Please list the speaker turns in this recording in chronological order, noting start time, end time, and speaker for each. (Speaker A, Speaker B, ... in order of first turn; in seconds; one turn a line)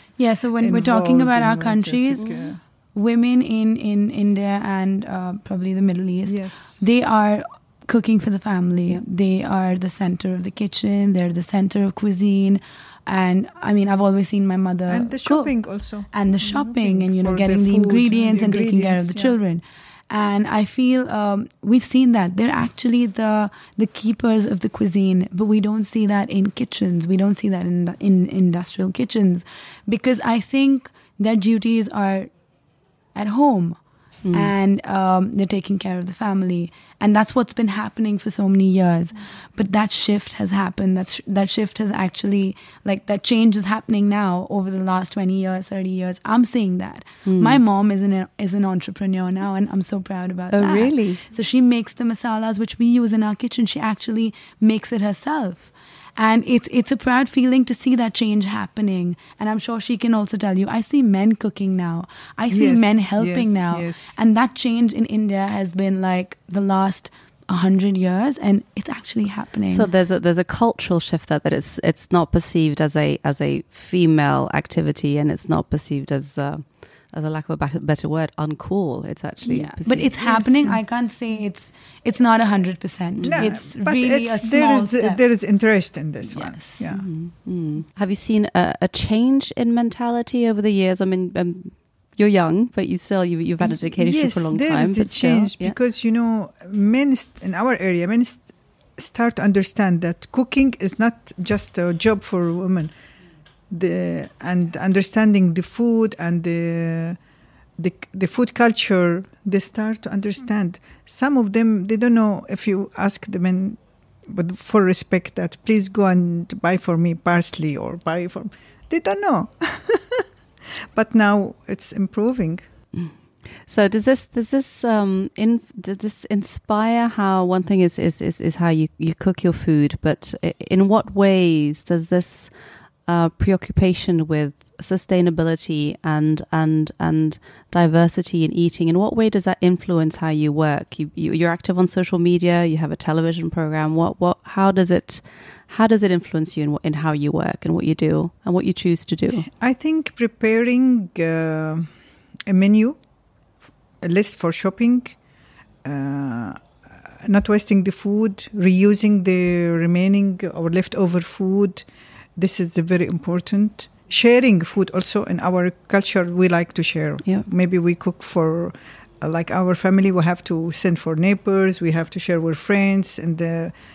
Speaker A: 0.2-15.5
Speaker B: 0.6-2.6
Speaker C: 2.2-2.5
Speaker B: 6.3-6.8
Speaker B: 14.9-19.4
Speaker A: 16.1-32.3
Speaker A: 33.1-33.8
Speaker C: 34.2-34.5
Speaker A: 34.3-69.9
Speaker C: 47.3-47.6
Speaker C: 50.5-51.2
Speaker B: 62.5-64.2
Speaker C: 69.7-80.1
Speaker A: 79.5-85.2
Speaker B: 80.2-80.8
Speaker C: 83.2-83.5
Speaker B: 83.3-87.1
Speaker A: 86.3-86.8
Speaker C: 86.9-95.8
Speaker B: 93.6-102.9
Speaker B: 103.7-107.2
Speaker B: 107.8-120.3
Speaker B: 120.9-122.7
Speaker C: 123.0-149.5
Speaker B: 149.5-151.9
Speaker B: 152.5-153.0
Speaker B: 154.0-155.2
Speaker B: 155.8-173.8